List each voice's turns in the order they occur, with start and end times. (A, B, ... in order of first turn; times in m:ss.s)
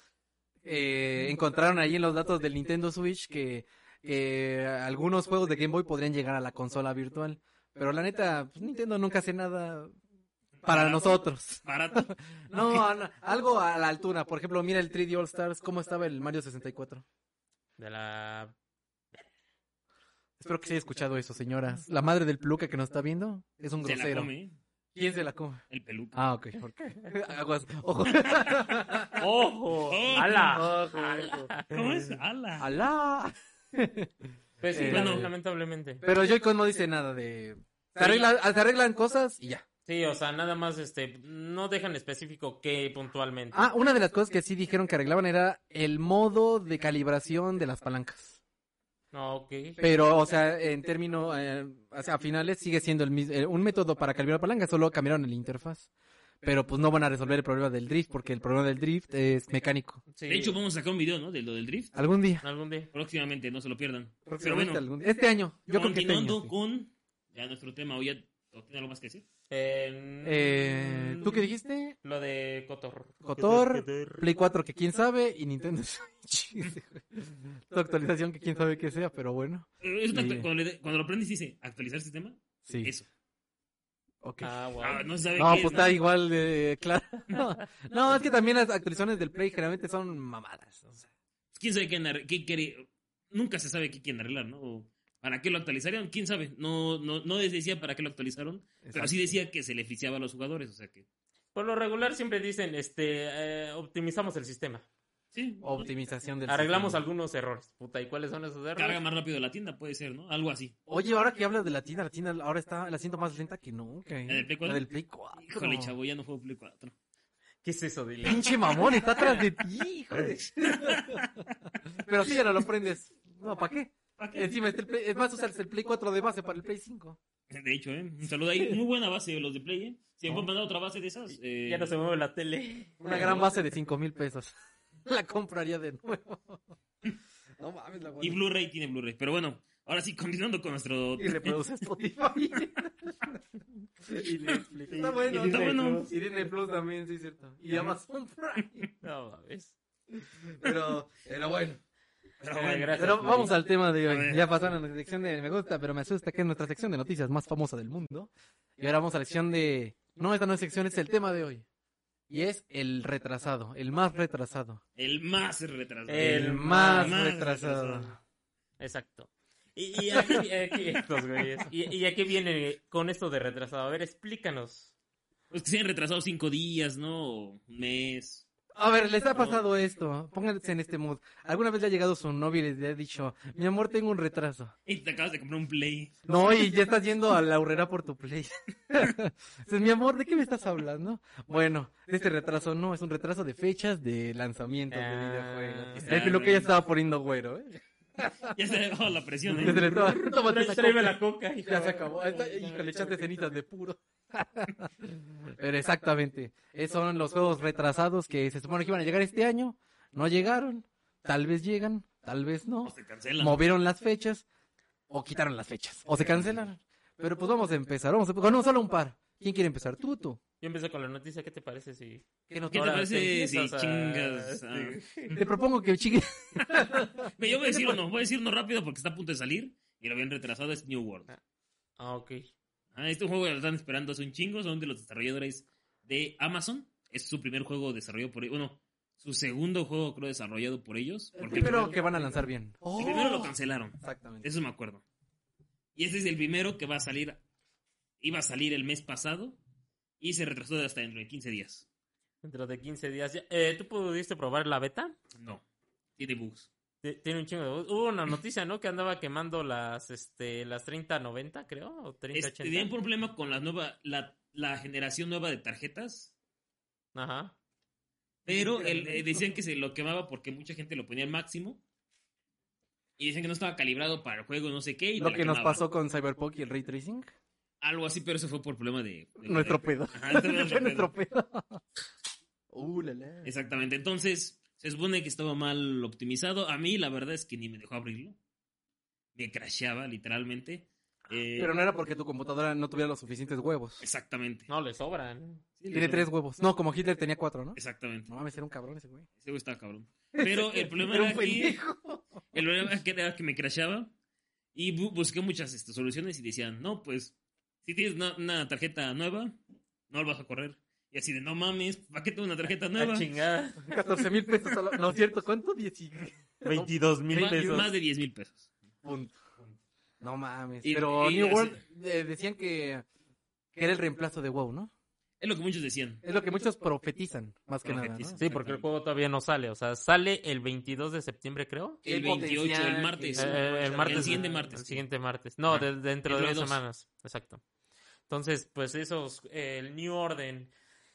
0:00.6-0:09.9 A
0:10.6-0:12.8 B
0:10.6-0:17.0 A
0:17.8-0:18.5 C
0:20.4-0:24.3 A
0:23.8-0:24.6 B
0:24.9-0:25.6 A
0:25.7-0:26.2 B
0:26.1-0:29.2 A
0:29.2-0:31.8 C
0:29.9-0:30.7 B
0:30.2-0:31.5 A
0:31.7-0:32.7 B
0:32.6-0:34.1 A
0:34.6-0:36.0 C
0:34.7-0:35.3 A
0:34.8-0:35.3 B
0:36.0-0:39.6 A
0:38.0-0:38.3 C
0:39.8-0:43.7 C
0:43.5-0:48.4 A
0:49.1-0:49.8 C
0:49.8-0:55.9 A
0:56.4-1:00.0 A
1:00.1-1:00.6 C
1:00.3-1:01.9 B
1:01.9-1:02.4 A
1:02.4-1:02.9 C
1:02.9-1:04.8 B
1:04.3-1:06.5 A
1:05.7-1:09.2 B
1:09.5-1:11.4 C
1:10.2-1:12.0 A
1:12.0-1:14.2 C
1:13.2-1:20.5 A
1:19.8-1:23.1 B
1:22.7-1:22.9 A
1:24.2-1:24.5 A
1:24.4-1:25.1 C
1:24.8-1:26.0 B
1:25.3-1:31.1 A
1:31.5-1:41.0 B
1:38.8-1:39.3 A
1:41.5-1:44.8 C
1:45.3-1:45.9 B
1:45.6-1:47.0 A
1:46.5-1:49.0 C
1:48.8-1:50.7 B
1:50.9-1:55.9 A
1:54.3-1:54.8 B
1:55.4-1:56.9 B
1:57.6-1:59.3 C
1:58.2-2:01.2 A
2:00.7-2:01.5 B
2:02.0-2:07.2 A
2:04.2-2:04.5 B
2:07.5-2:11.9 B
2:11.6-2:13.2 C
2:13.0-2:14.5 A
2:13.1-2:13.4 B
2:15.0-2:16.6 A
2:17.6-2:18.4 A
2:18.2-2:21.6 B
2:21.2-2:23.4 A
2:24.0-2:28.9 A
2:24.9-2:26.1 C
2:25.3-2:26.1 B
2:29.0-2:29.8 C
2:30.2-2:31.8 A
2:32.4-2:34.5 B
2:32.5-2:33.5 C
2:32.9-2:41.6 A
2:42.3-2:44.8 A
2:45.0-2:48.1 B
2:46.1-2:47.1 C
2:46.2-2:48.2 A
2:48.8-2:54.9 C
2:50.1-2:50.4 A
2:55.5-2:58.4 B
2:58.7-3:04.7 A
2:59.4-2:59.6 B
3:04.8-3:06.2 B
3:06.2-3:18.5 A
3:14.9-3:16.4 C
3:16.0-3:16.7 B
3:18.5-3:19.9 B
3:19.5-3:22.8 C
3:19.5-3:34.4 A
3:32.8-3:33.6 B
3:35.1-3:40.4 A
3:36.2-3:36.5 B
3:40.6-3:45.4 C
3:42.5-3:43.1 A
3:42.7-3:45.0 B
3:45.3-3:48.0 A
3:47.4-3:51.3 B
3:52.0-3:52.5 C
3:52.9-4:02.0 B
4:01.4-4:04.5 A
4:03.0-4:05.0 B
4:06.0-4:07.4 B
4:08.2-4:09.6 B
4:10.2-4:11.8 B
4:12.4-4:15.2 C
4:15.3-4:15.6 B
4:16.2-4:16.7 B
4:17.0-4:22.9 C
4:22.3-4:26.3 B
4:27.1-4:27.5 C
4:28.4-4:31.8 B
4:28.5-4:29.4 A
4:33.2-4:35.8 B
4:35.2-4:37.3 A
4:37.8-4:41.1 B
4:39.4-4:41.8 A
4:42.7-4:43.5 A
4:43.4-4:48.4 B
4:49.3-4:51.7 B
4:51.6-4:54.0 A
4:54.0-4:54.7 B
4:54.7-4:55.6 C
4:55.8-4:56.3 B
4:55.9-4:59.3 A
4:57.8-4:58.3 B
4:59.4-5:01.8 B
5:00.3-5:02.2 A
5:02.5-5:04.1 B
5:04.7-5:09.6 B
5:10.1-5:13.3 B
5:13.0-5:13.9 C
5:13.8-5:17.8 A
5:16.6-5:17.9 C
5:17.3-5:18.7 B
5:19.0-5:19.4 A
5:20.2-5:23.0 A
5:20.8-5:21.8 B
5:23.7-5:24.9 A
5:25.4-5:26.2 B
5:26.2-5:28.4 A
5:27.8-5:28.9 B
5:28.4-5:32.0 C
5:32.0-5:35.0 B
5:32.0-5:34.4 A
5:33.4-5:37.6 C
5:35.7-5:36.8 B
5:38.3-5:40.7 C